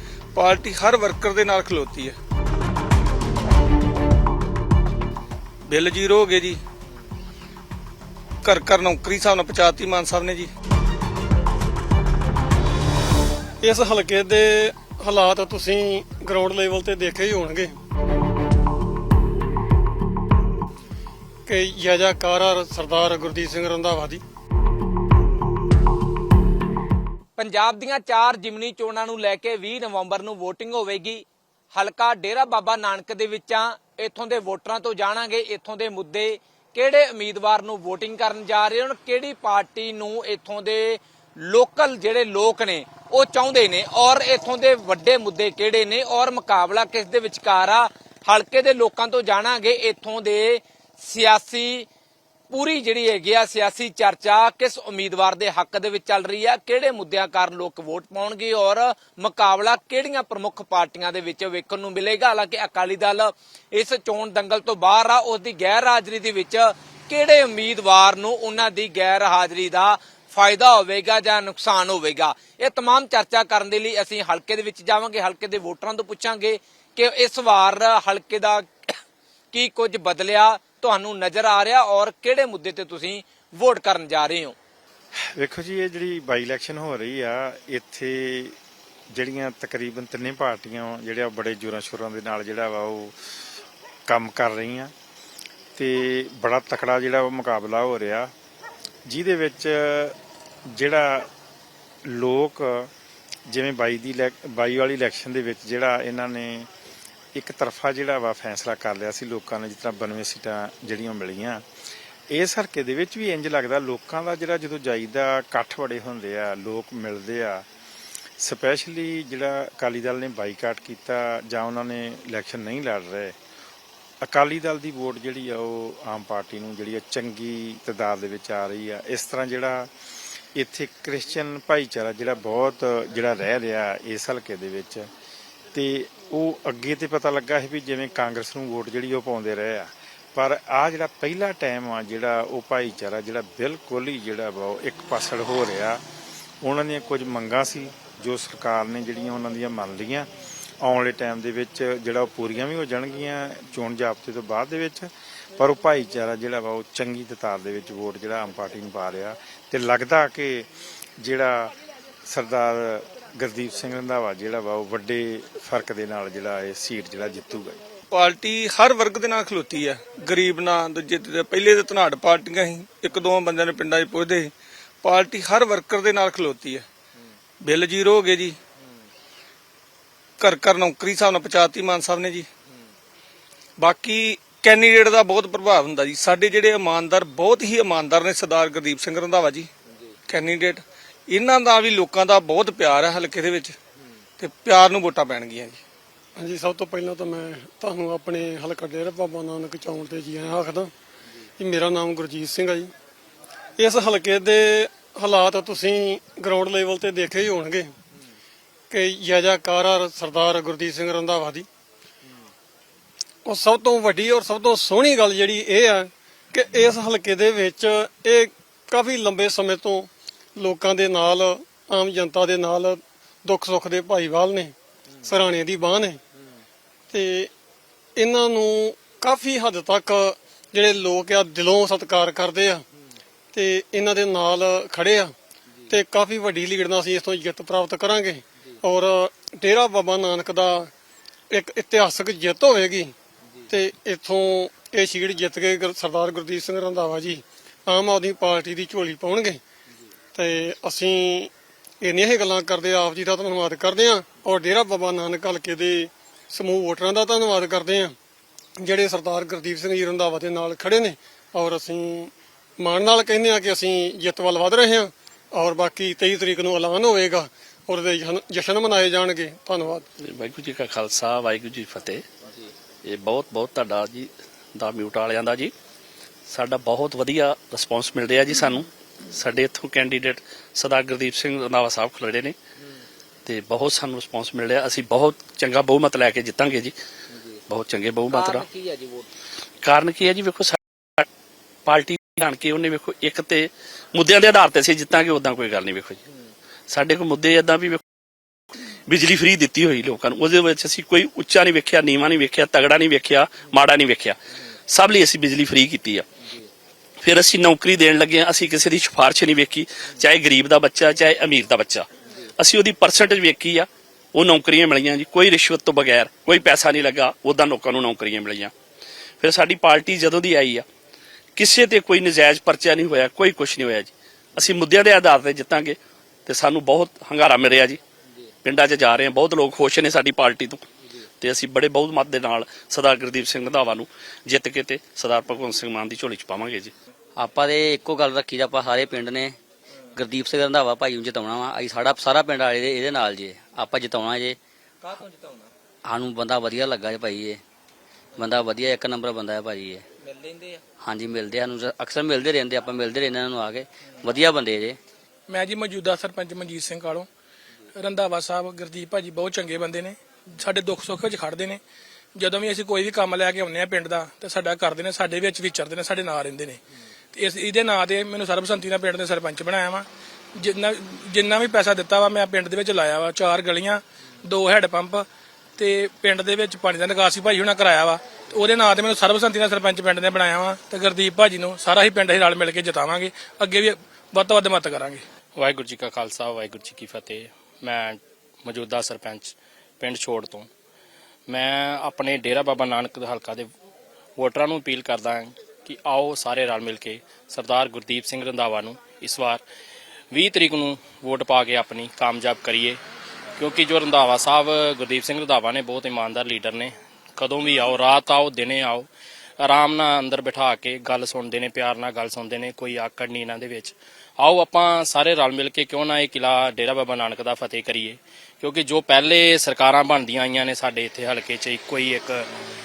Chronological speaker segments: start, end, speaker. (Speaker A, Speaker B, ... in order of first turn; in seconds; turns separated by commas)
Speaker A: 0.3-2.2, Speaker A: 5.7-6.6, Speaker A: 8.4-10.5, Speaker B: 13.6-17.8, Speaker B: 21.5-24.2, Speaker C: 27.4-51.9, Speaker C: 52.5-78.7, Speaker C: 79.5-84.6, Speaker D: 85.4-88.6, Speaker D: 89.1-93.3, Speaker D: 94.1-94.9, Speaker D: 95.8-98.3, Speaker D: 99.1-100.2, Speaker D: 100.7-101.3, Speaker D: 102.1-102.9, Speaker D: 103.5-106.7, Speaker D: 107.3-111.6, Speaker D: 112.3-117.7, Speaker D: 118.4-123.3, Speaker D: 124.2-129.9, Speaker D: 130.6-135.1, Speaker D: 135.7-146.0, Speaker D: 146.6-150.3, Speaker D: 150.8-160.7, Speaker D: 161.2-161.7, Speaker D: 162.3-167.8, Speaker A: 168.1-174.5, Speaker A: 175.0-176.9, Speaker A: 177.6-178.6, Speaker A: 180.4-182.5, Speaker A: 183.8-189.7, Speaker A: 190.3-193.8, Speaker A: 194.4-195.8, Speaker B: 196.4-200.9, Speaker B: 201.6-202.9, Speaker B: 203.8-207.9, Speaker B: 208.9-211.7, Speaker B: 213.4-226.2, Speaker B: 227.1-227.5, Speaker B: 228.2-232.8, Speaker B: 233.5-235.3, Speaker B: 235.9-240.9, Speaker B: 241.5-243.2, Speaker B: 243.7-249.6, Speaker B: 250.3-258.1, Speaker B: 258.8-270.1, Speaker E: 270.2-272.2, Speaker E: 273.0-275.7, Speaker E: 276.5-282.6, Speaker E: 283.5-286.9, Speaker E: 287.7-288.6, Speaker C: 288.4-289.3, Speaker E: 289.8-291.3, Speaker E: 291.9-296.2, Speaker E: 296.9-298.0, Speaker E: 299.1-306.3, Speaker E: 307.2-312.1, Speaker E: 312.6-318.7, Speaker E: 319.4-320.9, Speaker E: 321.6-328.0, Speaker E: 328.6-330.9, Speaker E: 331.4-336.9, Speaker F: 337.4-339.6, Speaker F: 340.2-344.6, Speaker C: 345.0-345.7, Speaker F: 346.1-347.6, Speaker F: 348.4-350.0, Speaker C: 350.2-350.8, Speaker F: 351.0-355.0, Speaker G: 355.5-357.3, Speaker G: 358.0-361.8, Speaker G: 362.4-366.8, Speaker G: 367.3-370.1, Speaker G: 370.6-375.2, Speaker G: 375.8-385.2, Speaker H: 385.6-390.7, Speaker H: 391.5-393.7, Speaker H: 394.4-399.6, Speaker H: 400.3-403.0, Speaker H: 403.6-409.1, Speaker H: 409.6-422.5